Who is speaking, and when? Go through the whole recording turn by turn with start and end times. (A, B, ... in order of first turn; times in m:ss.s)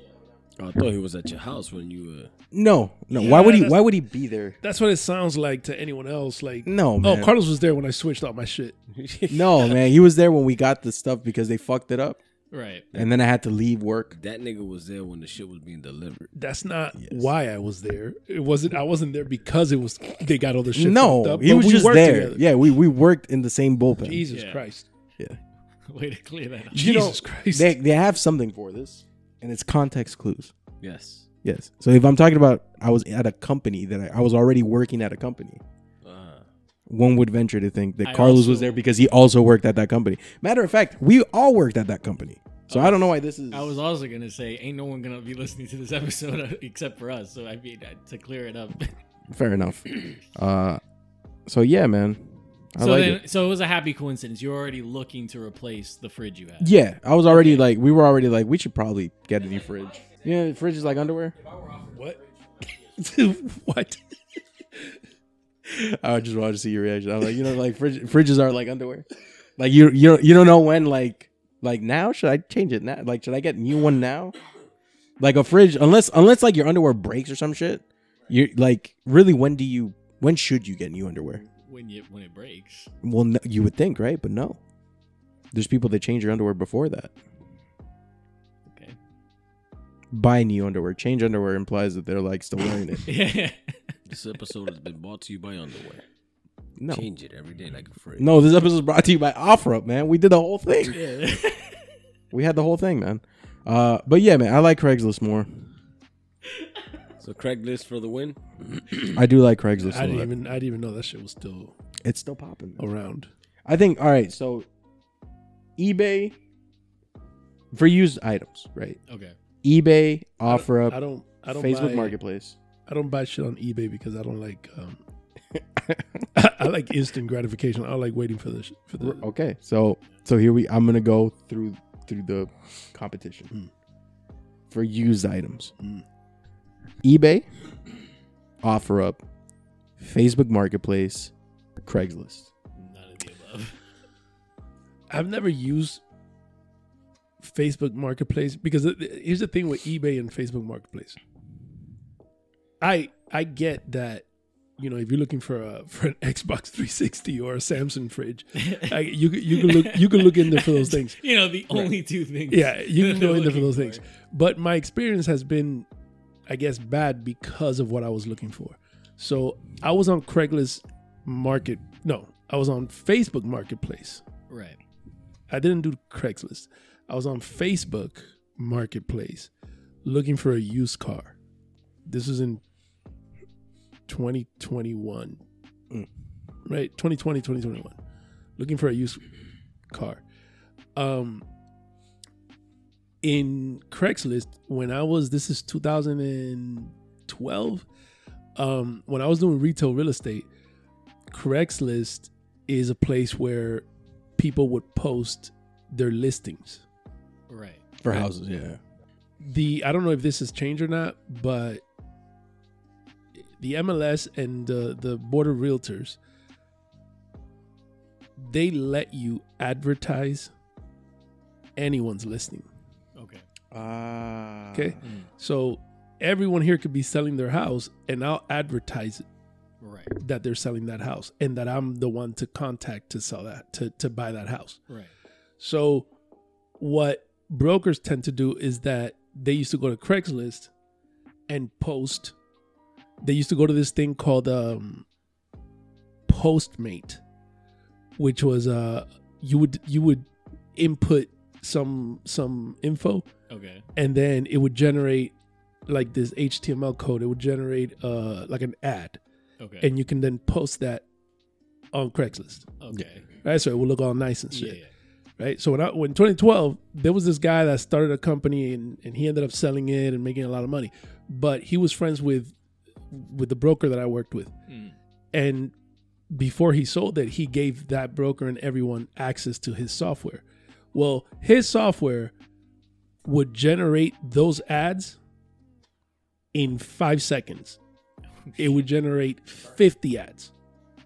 0:00.6-0:02.3 A
0:02.5-0:04.6 B
0:03.1-0:03.8 C
0:04.6-0:08.8 C
0:06.6-0:07.3 B
0:08.9-0:09.8 A
0:09.3-0:12.2 B
0:12.5-0:12.8 D
0:12.9-0:14.1 B
0:14.1-0:16.3 A
0:16.3-0:22.4 C
0:17.0-0:17.3 B
0:20.7-0:24.2 B
0:24.0-0:24.8 C
0:24.3-0:24.6 D
0:25.9-0:26.8 D
0:26.7-0:27.7 C
0:26.7-0:30.5 B
0:30.8-0:31.2 A
0:31.4-0:35.6 B
0:36.0-0:36.5 A
0:36.9-0:43.8 B
0:38.0-0:38.9 D
0:42.7-0:48.9 D
0:49.3-0:50.8 B
0:51.4-0:53.2 B
0:52.8-0:56.7 D
0:56.6-1:01.7 B
0:57.3-0:57.7 D
1:01.9-1:02.2 C
1:03.0-1:04.0 C
1:05.6-1:09.0 B
1:09.6-1:14.3 B
1:15.2-1:21.4 B
1:21.4-1:22.9 D
1:23.0-1:24.6 B
1:25.5-1:27.1 B
1:28.6-1:29.0 D
1:30.1-1:33.1 B
1:33.1-1:33.9 D
1:34.1-1:36.0 A
1:36.8-1:37.1 B
1:36.9-1:38.3 A
1:38.2-1:41.0 B
1:40.9-1:41.8 D
1:42.3-1:45.6 B
1:47.2-1:49.1 A
1:49.1-1:50.3 B
1:49.8-1:51.7 C
1:52.0-1:52.8 B
1:52.8-1:53.3 C
1:53.6-1:54.7 B
1:55.8-1:56.4 B
1:57.7-1:59.0 B
1:59.1-1:59.4 D
1:59.6-2:02.6 B
2:00.5-2:02.2 C
2:02.8-2:05.0 C
2:05.5-2:06.3 B
2:06.3-2:09.2 C
2:09.0-2:13.5 B
2:14.7-2:15.7 B
2:17.0-2:17.5 B
2:18.6-2:19.2 B
2:20.0-2:21.3 B
2:21.8-2:22.5 B
2:22.8-2:23.8 D
2:25.1-2:26.0 C
2:27.4-2:31.2 C
2:32.8-2:34.2 C
2:34.8-2:41.2 C
2:38.7-2:44.0 D
2:42.5-2:45.9 C
2:46.5-2:54.2 C
2:54.5-2:54.8 D
2:55.5-2:59.5 C
3:00.0-3:01.3 C
3:02.0-3:02.6 C
3:04.1-3:05.4 C
3:06.6-3:08.0 C
3:08.6-3:09.2 C
3:09.9-3:10.2 C
3:11.0-3:11.4 C
3:13.2-3:17.8 C
3:18.6-3:20.5 C
3:21.3-3:23.8 C
3:24.4-3:26.8 C
3:27.5-3:27.9 D
3:28.0-3:28.8 B
3:29.4-3:31.8 C
3:33.6-3:36.2 C
3:38.4-3:40.5 C
3:41.8-3:42.7 C
3:43.2-3:43.4 D
3:43.7-3:45.0 B
3:44.7-3:49.2 C
3:45.0-3:45.3 D
3:49.8-3:50.2 D
3:50.2-3:54.8 C
3:55.6-3:56.1 C
3:56.8-4:00.7 C
4:01.5-4:02.3 C
4:03.2-4:05.0 C
4:06.3-4:07.2 C
4:08.2-4:13.3 C
4:13.5-4:13.8 D
4:14.0-4:15.3 C
4:15.9-4:19.2 C
4:19.6-4:19.9 D
4:19.8-4:21.0 C
4:21.9-4:22.7 C
4:22.8-4:23.3 D
4:23.4-4:24.8 C
4:24.5-4:24.9 D
4:25.4-4:32.5 C
4:33.1-4:34.5 C
4:34.7-4:35.0 D
4:35.3-4:35.7 C
4:36.3-4:42.3 C
4:43.2-4:45.2 C
4:46.5-4:47.8 C
4:48.4-4:48.9 D
4:48.6-4:50.5 C